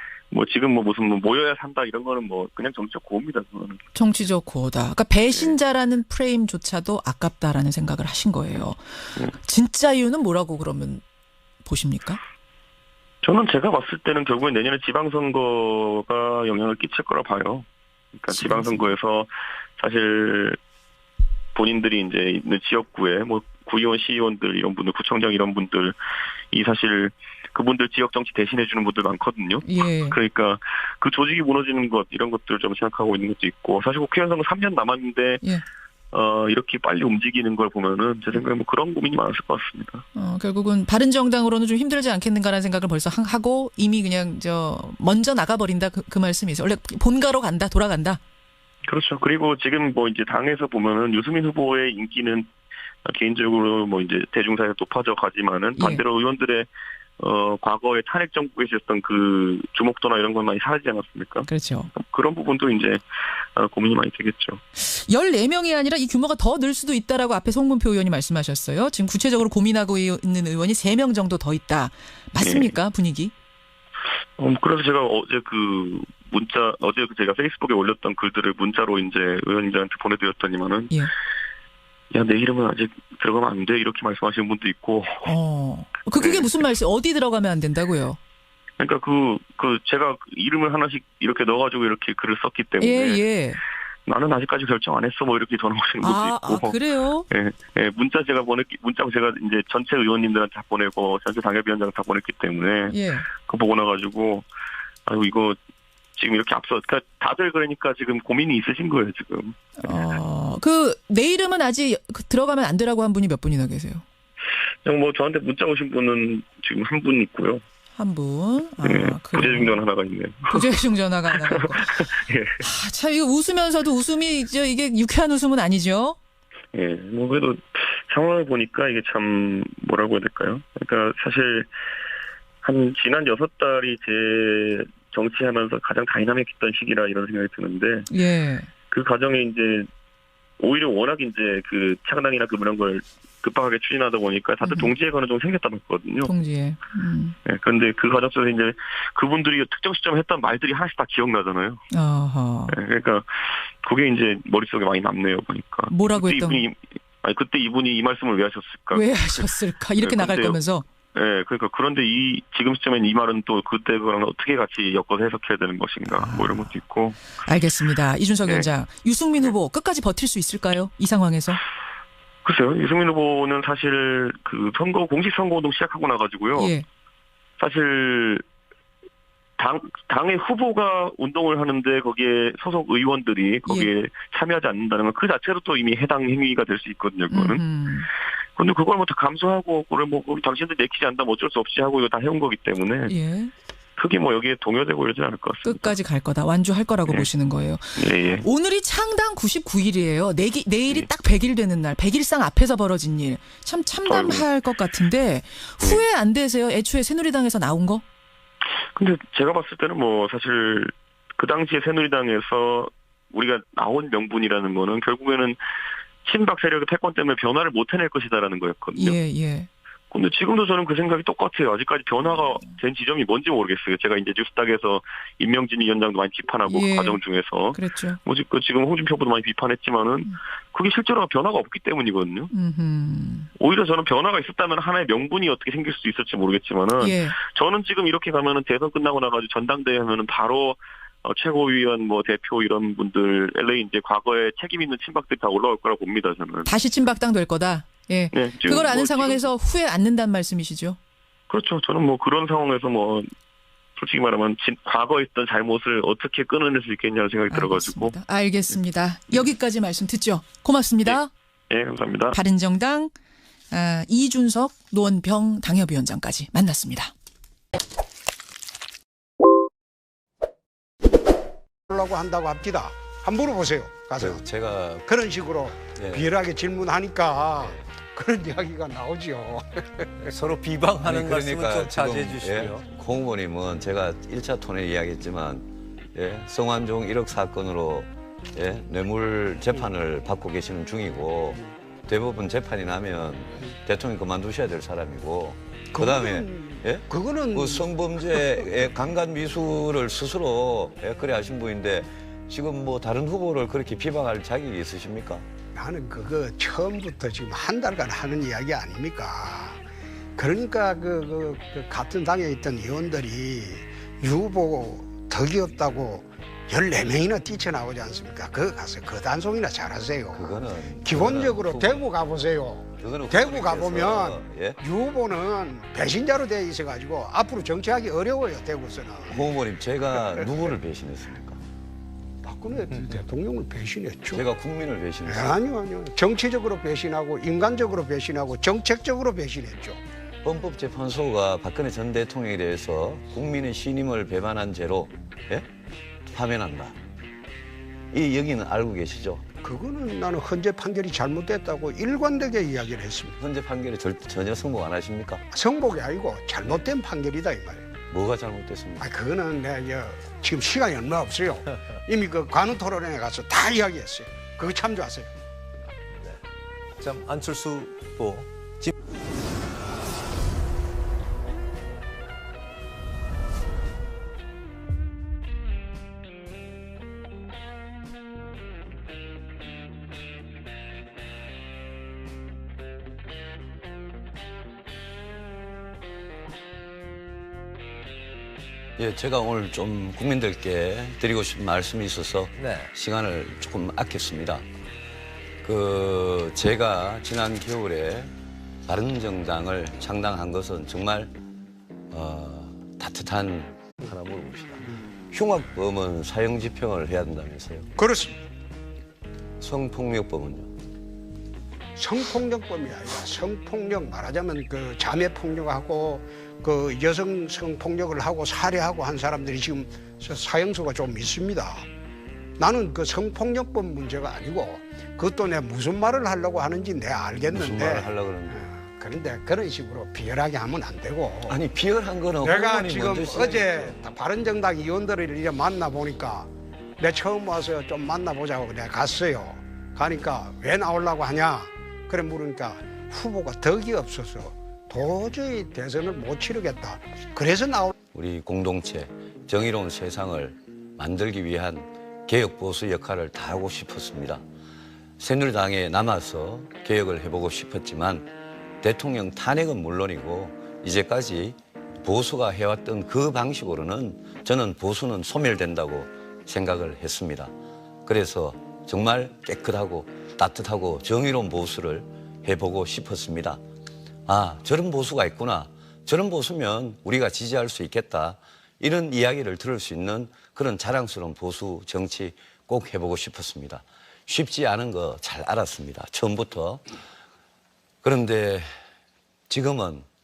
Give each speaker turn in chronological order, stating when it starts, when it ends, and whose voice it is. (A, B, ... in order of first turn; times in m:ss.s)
0:00.3-0:03.8 A
0:03.9-0:11.0 B
0:05.3-0:05.6 A
0:11.6-0:12.2 B
0:13.2-0:20.6 A
0:18.3-0:18.9 B
0:21.5-0:26.0 A
0:26.5-0:35.4 A
0:29.6-0:30.2 B
0:36.1-0:40.0 A
0:40.1-0:48.2 B
0:48.8-0:52.5 A
0:53.0-0:56.7 A
0:55.7-0:56.0 B
0:57.2-1:03.0 A
1:01.5-1:01.9 B
1:03.5-1:04.6 A
1:04.8-1:13.3 B
1:12.4-1:12.7 A
1:14.4-1:21.0 A
1:22.1-1:25.3 A
1:25.2-1:28.2 B
1:26.2-1:26.5 A
1:28.8-1:33.2 A
1:32.8-1:33.6 B
1:34.0-1:36.8 A
1:36.0-1:37.3 B
1:37.3-1:44.4 A
1:42.9-1:43.3 B
1:45.0-1:45.6 A
1:46.1-1:49.6 A
1:49.8-1:54.0 B
1:54.8-1:57.6 A
1:58.0-1:59.8 B
1:58.8-2:02.6 A
2:00.5-2:02.0 B
2:02.6-2:06.2 B
2:06.7-2:11.7 A
2:12.6-2:18.1 A
2:18.1-2:18.7 B
2:18.9-2:19.9 A
2:20.6-2:26.3 A
2:24.6-2:24.9 B
2:26.2-2:27.3 B
2:27.4-2:31.8 A
2:31.9-2:32.8 B
2:32.7-2:40.6 A
2:35.9-2:36.7 B
2:38.9-2:40.9 B
2:41.1-2:47.2 A
2:46.1-2:46.7 B
2:47.4-2:51.6 B
2:52.4-2:56.7 A
2:56.5-2:56.8 B
2:57.6-2:58.4 A
2:59.6-3:07.6 A
3:07.3-3:08.1 B
3:08.6-3:13.1 A
3:13.1-3:13.5 B
3:14.0-3:16.0 A
3:15.6-3:28.0 B
3:18.0-3:18.4 A
3:24.1-3:24.5 A
3:28.9-3:35.6 A
3:36.2-3:39.2 A
3:39.0-3:39.7 B
3:40.1-3:52.5 A
3:46.7-3:48.2 B
3:52.5-3:53.5 B
3:53.6-4:06.7 A
3:57.0-3:57.4 B
4:06.6-4:11.0 B
4:08.3-4:09.5 A
4:11.5-4:13.3 A
4:14.0-4:18.2 A
4:17.5-4:21.3 B
4:21.7-4:22.4 A
4:22.3-4:23.1 B
4:23.7-4:27.1 B
4:31.9-4:34.4 C
4:34.2-4:35.1 D
4:35.1-4:40.2 C
4:35.9-4:36.3 D
4:37.6-4:37.8 D
4:40.2-4:42.8 E
4:41.0-5:05.4 D
4:55.9-4:58.6 C
5:05.7-5:09.8 C
5:10.4-5:29.4 C
5:20.3-5:22.0 D
5:23.0-5:24.8 D
5:29.3-5:31.6 D
5:32.4-5:34.4 C
5:34.3-5:35.6 D
5:35.2-5:40.0 C
5:40.4-5:45.6 D
5:46.3-5:47.0 D
5:48.1-5:49.4 D
5:49.6-5:53.4 C
5:53.4-5:55.4 D
5:55.5-5:57.9 C
5:58.1-5:59.0 D
5:59.0-6:05.3 C
6:06.1-6:06.4 E
6:07.0-6:08.9 E
6:29.0-6:34.6 D
6:32.6-6:32.9 E
6:35.6-6:38.3 D
6:38.8-6:41.3 D
6:42.1-6:47.9 D
6:48.0-6:48.3 C
6:49.6-6:50.7 D
6:52.0-7:01.8 C
7:02.6-7:11.6 C
7:07.5-7:08.6 D
7:11.5-7:14.0 D
7:12.4-7:27.9 C
7:28.1-7:34.4 D
7:35.2-7:38.3 D
7:38.8-7:47.5 D
7:48.0-7:53.6 D
7:54.2-8:06.9 D
8:08.0-8:08.7 D
8:09.5-8:10.0 D